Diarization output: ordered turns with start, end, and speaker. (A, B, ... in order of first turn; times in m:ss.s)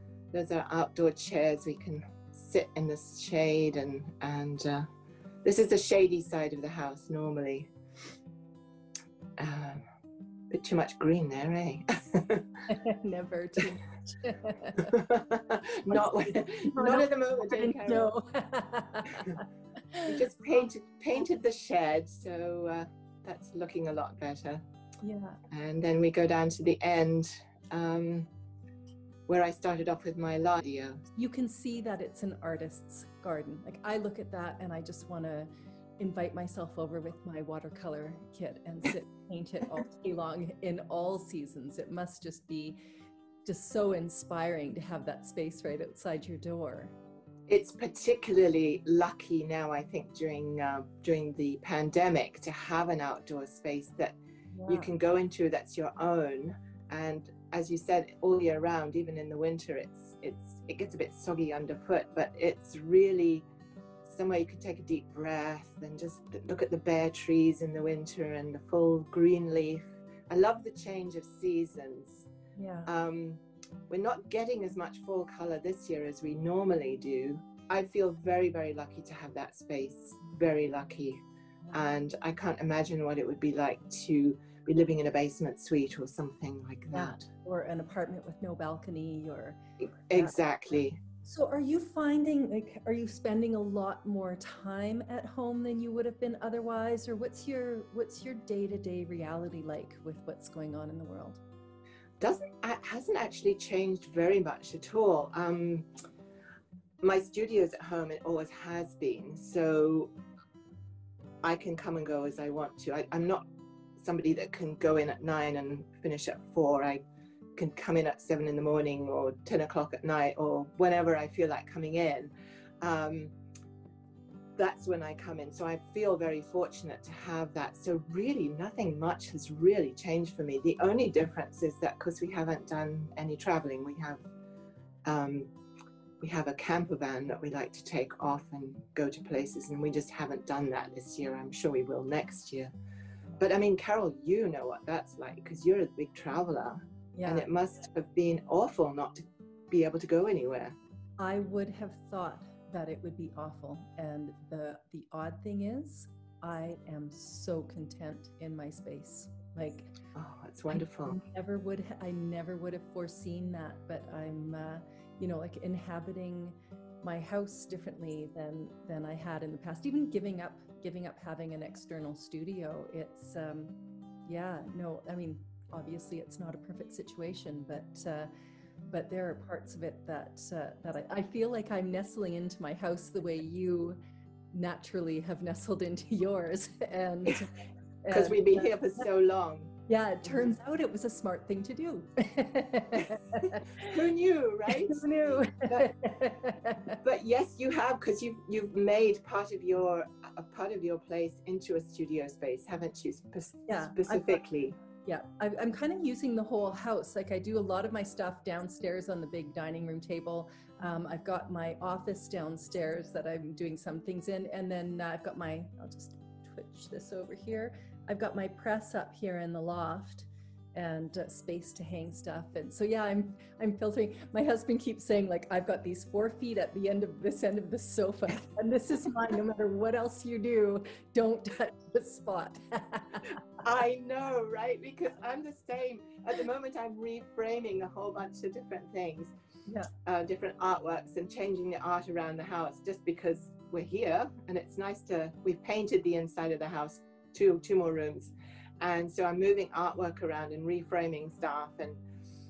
0:00.3-0:04.9 A
0:05.4-0:07.7 A
0:09.4-0:09.8 A
0:10.5-0:12.7 A
0:12.7-0:15.0 B
0:14.8-0:18.1 A
0:15.9-0:20.1 B
0:20.0-0:24.6 A
0:25.0-0:25.4 B
0:25.5-0:28.3 A
0:29.3-0:31.0 A
0:31.2-0:42.8 B
0:43.4-0:47.0 B
0:47.5-0:54.2 A
0:54.5-0:54.9 B
0:54.7-1:03.4 A
1:04.0-1:12.3 A
1:12.6-1:12.9 B
1:12.9-1:27.3 A
1:26.9-1:29.6 B
1:29.8-1:31.0 A
1:31.2-1:41.4 B
1:42.2-1:45.9 A
1:47.0-1:50.1 A
1:51.4-1:57.0 A
1:57.6-2:03.3 A
2:04.6-2:14.2 A
2:15.1-2:15.5 A
2:16.2-2:22.7 A
2:23.4-2:30.8 A
2:27.2-2:27.5 B
2:31.2-2:40.0 B
2:40.1-2:41.2 A
2:40.7-2:53.7 B
2:54.3-2:58.3 B
2:58.9-3:04.0 B
3:04.5-3:09.1 B
3:08.1-3:09.7 A
3:09.9-3:13.9 B
3:10.2-3:10.6 A
3:13.8-3:15.9 A
3:14.7-3:17.0 B
3:17.0-3:24.8 A
3:23.7-3:24.4 B
3:25.0-3:53.4 B
3:53.6-3:59.3 A
4:00.0-4:12.0 A